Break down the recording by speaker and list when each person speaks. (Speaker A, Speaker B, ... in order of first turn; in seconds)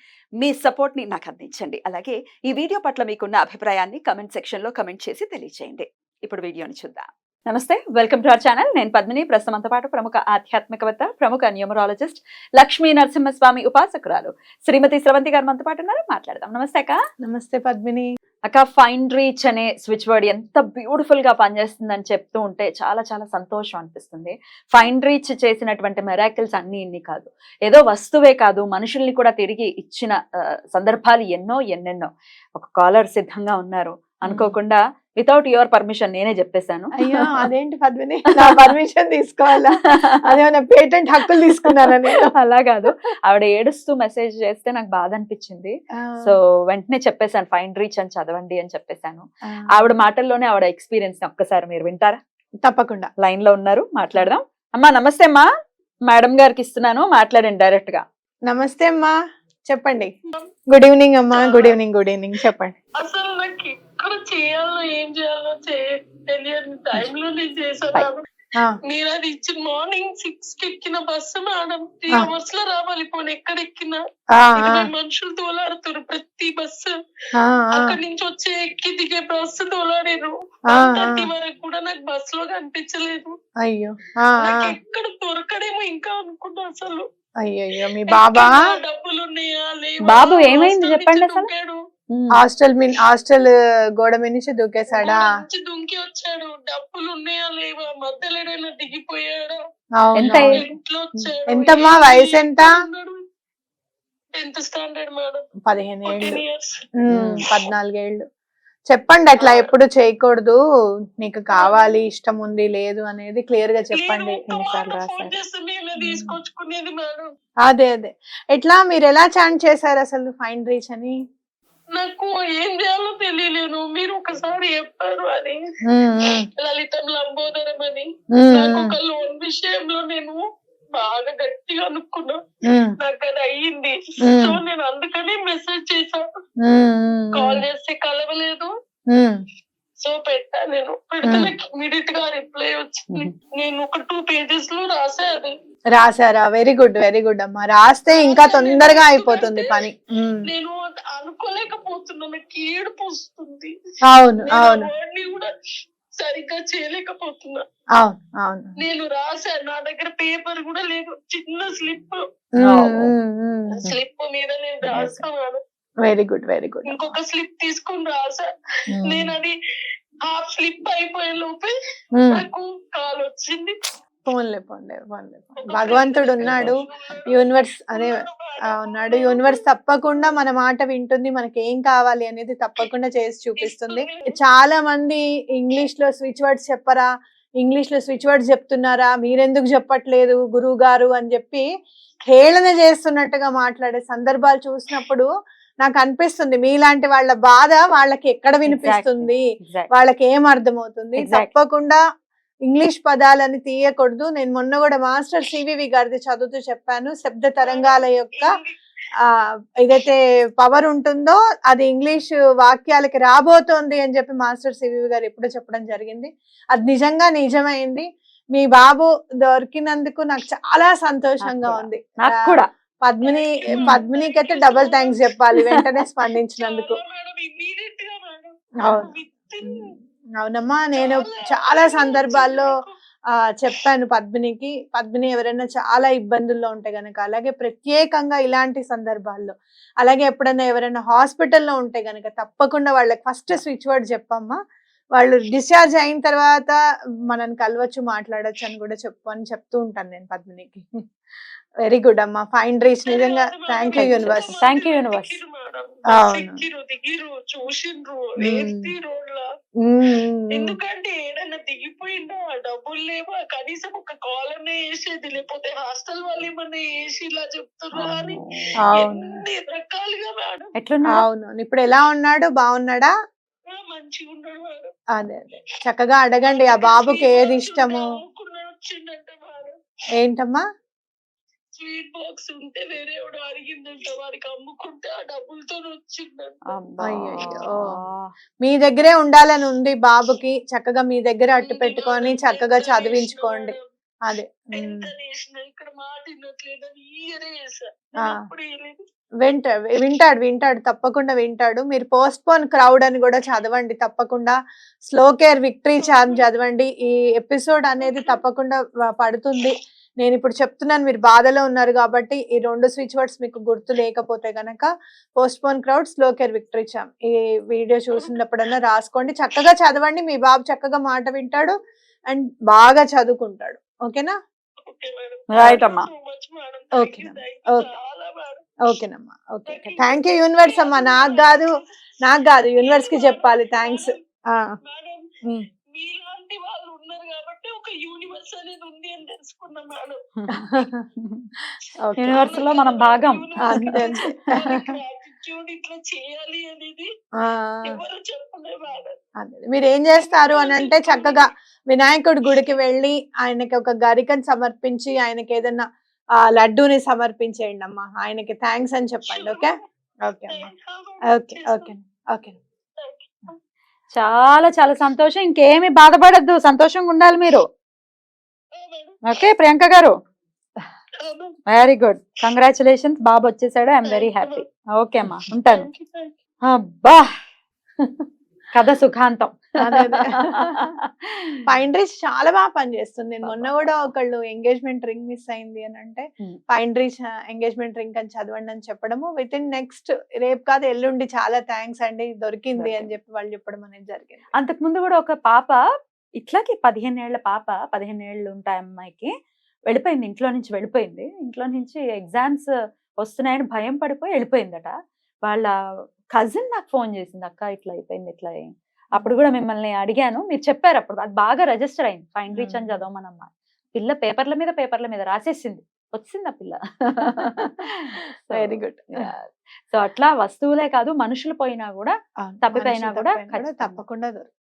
Speaker A: 0.4-17.0, 18.5-30.2, 30.7-37.4, 38.4-38.7, 42.4-52.2, 53.2-55.5, 56.1-58.0, 90.0-91.5, 92.1-92.4, 100.2-100.6, 107.1-107.5, 114.5-115.4, 162.6-163.1, 176.4-176.7, 198.7-199.9, 201.2-201.5, 221.4-222.7, 253.9-255.4, 267.9-268.9, 270.8-271.2, 286.7-288.3, 325.5-326.1, 340.4-341.5, 342.2-344.7, 364.1-367.6, 369.2-370.1, 371.7-375.9, 376.7-377.3, 378.7-381.6, 383.4-384.1, 392.8-393.1, 394.6-395.8, 396.4-399.3, 399.9-402.7, 403.2-404.9, 405.4-405.7, 406.3-424.0
Speaker B: 17.2-18.1, 34.3-34.5, 37.0-42.3, 46.0-46.3, 49.5-49.9, 52.6-53.1, 58.5-59.1, 59.7-60.1, 60.7-62.8, 74.3-74.9, 77.3-78.0, 80.7-81.2, 83.6-84.8, 87.4-88.6, 92.4-95.3, 100.0-100.7, 101.5-102.7, 105.7-106.4, 107.1-108.2, 108.9-110.6, 111.2-114.4, 116.0-116.3, 117.7-121.2, 125.9-126.4, 128.4-128.9, 132.7-132.9, 134.3-134.6, 136.6-137.6, 141.3-141.5, 145.9-150.4, 154.1-154.9, 158.0-158.8, 162.6-163.8, 164.9-165.2, 166.0-167.2, 168.9-169.3, 172.2-172.4, 174.2-176.8, 177.3-187.1, 187.6-191.7, 192.3-195.3, 195.8-199.4, 199.9-202.0, 202.7-208.5, 209.2-227.0, 230.4-232.7, 233.6-244.6, 245.2-246.8, 247.3-250.9, 251.9-254.5, 256.1-256.6, 258.4-258.9, 259.8-260.7, 268.8-269.3, 271.1-273.1, 275.1-278.0, 280.2-280.6, 287.1-287.9, 288.6-293.7, 294.3-295.1, 299.4-314.9, 315.4-321.7, 322.3-324.3, 327.0-327.9, 328.9-334.8, 340.6-340.9, 342.0-342.5, 343.6-344.9, 347.4-348.0, 349.4-355.8, 356.4-359.7, 360.3-360.7, 361.3-362.6, 379.8-380.9, 381.7-394.5, 412.5-413.0, 418.5-419.2, 422.4-424.5
Speaker C: 61.3-61.8, 63.0-68.2, 68.9-74.0, 74.6-76.9, 77.7-83.3, 84.4-87.0, 87.8-91.8, 95.0-99.6, 100.3-103.2, 104.4-105.4, 106.1-106.8, 109.4-109.7, 111.5-112.0, 113.9-117.3, 122.0-125.6, 126.6-130.4, 131.0-132.4, 133.0-136.2, 137.3-138.7, 140.0-145.5, 148.1-149.8, 150.5-153.7, 154.4-155.5, 156.2-157.6, 158.8-162.2, 163.8-165.6, 166.9-168.5, 169.1-169.5, 170.3-171.7, 172.3-173.8, 175.6-179.6, 183.6-184.4, 207.6-208.8, 223.2-225.2, 226.6-229.9, 230.9-232.9, 253.1-259.4, 260.5-270.7, 273.7-274.9, 276.5-279.7, 281.8-286.6, 291.6-293.9, 294.7-299.0, 306.0-306.5, 308.0-308.4, 324.9-328.7, 329.7-331.9, 332.8-334.2, 334.8-335.2, 335.9-340.2, 342.3-347.1, 347.9-349.2, 350.2-351.5, 359.3-359.8, 360.5-361.9, 363.0-363.5, 368.8-369.2, 371.2-371.6, 374.1-374.7, 375.7-376.3